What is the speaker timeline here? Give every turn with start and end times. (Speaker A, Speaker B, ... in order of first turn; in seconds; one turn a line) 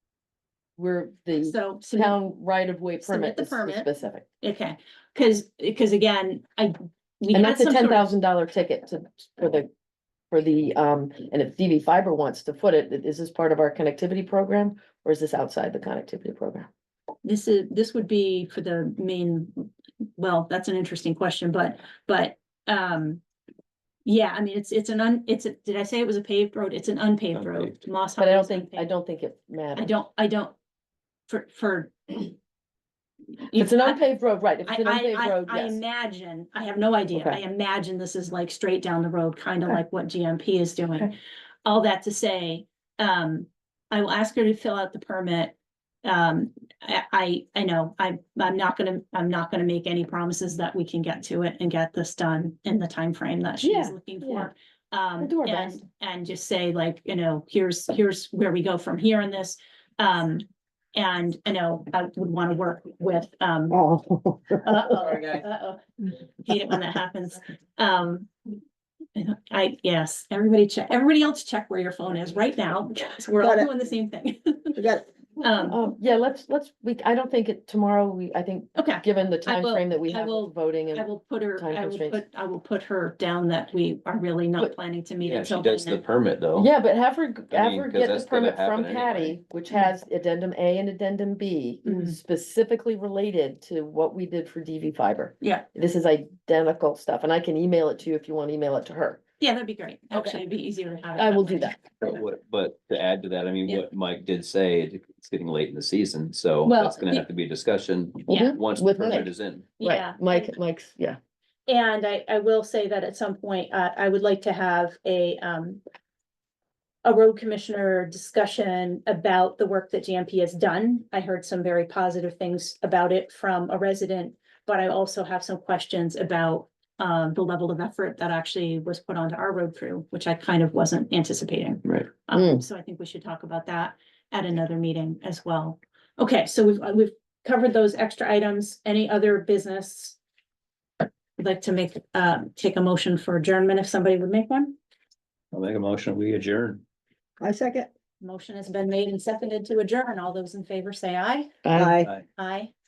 Speaker A: 0.8-4.2
Speaker B: 1.4-2.2
Speaker B: 3.0-3.9
Speaker B: 4.4-8.1
Speaker A: 7.3-9.7
Speaker A: 10.3-16.7
Speaker B: 17.2-23.2
Speaker B: 24.1-28.9
Speaker C: 27.3-27.8
Speaker A: 28.2-29.9
Speaker B: 29.8-30.6
Speaker B: 31.3-32.3
Speaker B: 33.4-34.0
Speaker A: 33.5-35.8
Speaker B: 34.6-63.8
Speaker A: 37.1-37.4
Speaker A: 53.6-54.5
Speaker A: 55.2-55.8
Speaker D: 63.7-64.8
Speaker B: 64.6-68.3
Speaker B: 69.2-74.8
Speaker D: 73.4-73.7
Speaker D: 74.8-75.1
Speaker B: 75.4-75.8
Speaker A: 75.7-82.2
Speaker B: 78.8-86.0
Speaker C: 85.2-86.7
Speaker A: 86.5-99.2
Speaker C: 87.5-89.4
Speaker B: 91.8-92.2
Speaker B: 99.4-101.8
Speaker A: 100.1-100.4
Speaker A: 101.2-102.0
Speaker C: 102.0-109.7
Speaker B: 106.7-107.3
Speaker A: 108.3-109.3
Speaker B: 108.3-108.6
Speaker B: 109.8-110.5
Speaker A: 109.8-111.2
Speaker B: 111.7-115.8
Speaker B: 117.0-140.2
Speaker A: 132.3-132.7
Speaker B: 141.4-144.8
Speaker C: 145.5-146.8
Speaker D: 147.4-147.9
Speaker B: 148.2-151.5
Speaker A: 151.6-152.0
Speaker D: 151.8-152.1
Speaker B: 152.3-152.7